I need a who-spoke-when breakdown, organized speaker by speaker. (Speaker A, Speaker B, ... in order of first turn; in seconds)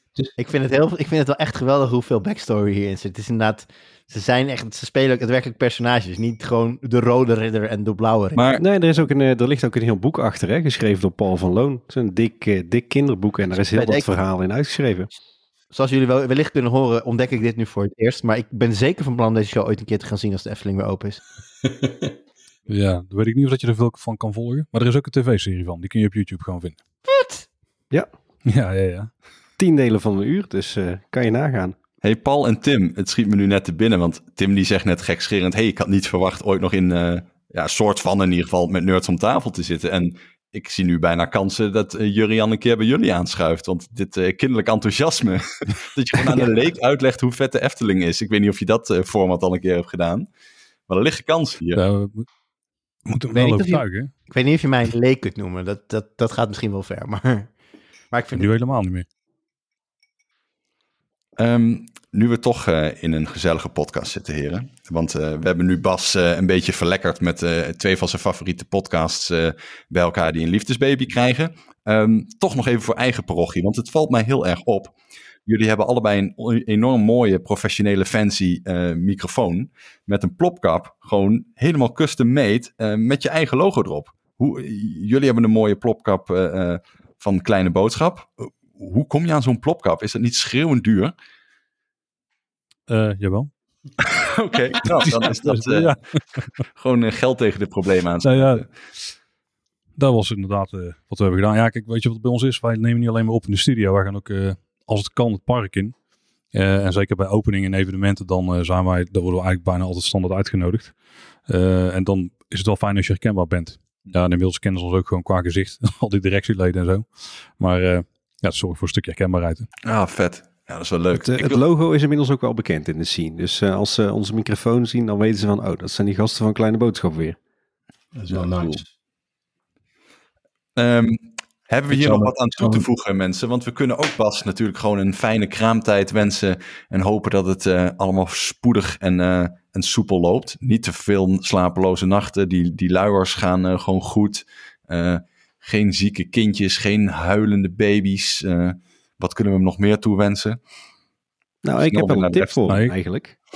Speaker A: 0.4-8.4, 13.6-14.2, 15.7-21.2, 27.1-27.4, 53.3-57.5, 58.1-58.5
Speaker B: 8.3-8.6, 32.0-50.3, 50.9-51.8, 61.4-74.9, 75.5-91.1, 94.0-95.9, 96.8-98.6, 119.8-121.6, 128.3-128.8, 130.8-150.6, 151.8-152.6
Speaker C: 8.6-15.1, 29.6-31.8, 121.1-127.4, 151.6-153.3
Speaker D: 21.7-22.1, 128.1-128.8, 131.9-132.9
Speaker E: 22.7-26.8, 28.5-29.1, 51.7-52.2, 53.1-54.1, 58.3-59.0, 92.9-93.5, 94.9-96.5, 98.2-98.7, 100.0-105.9, 106.5-111.0, 111.5-119.7, 152.7-152.9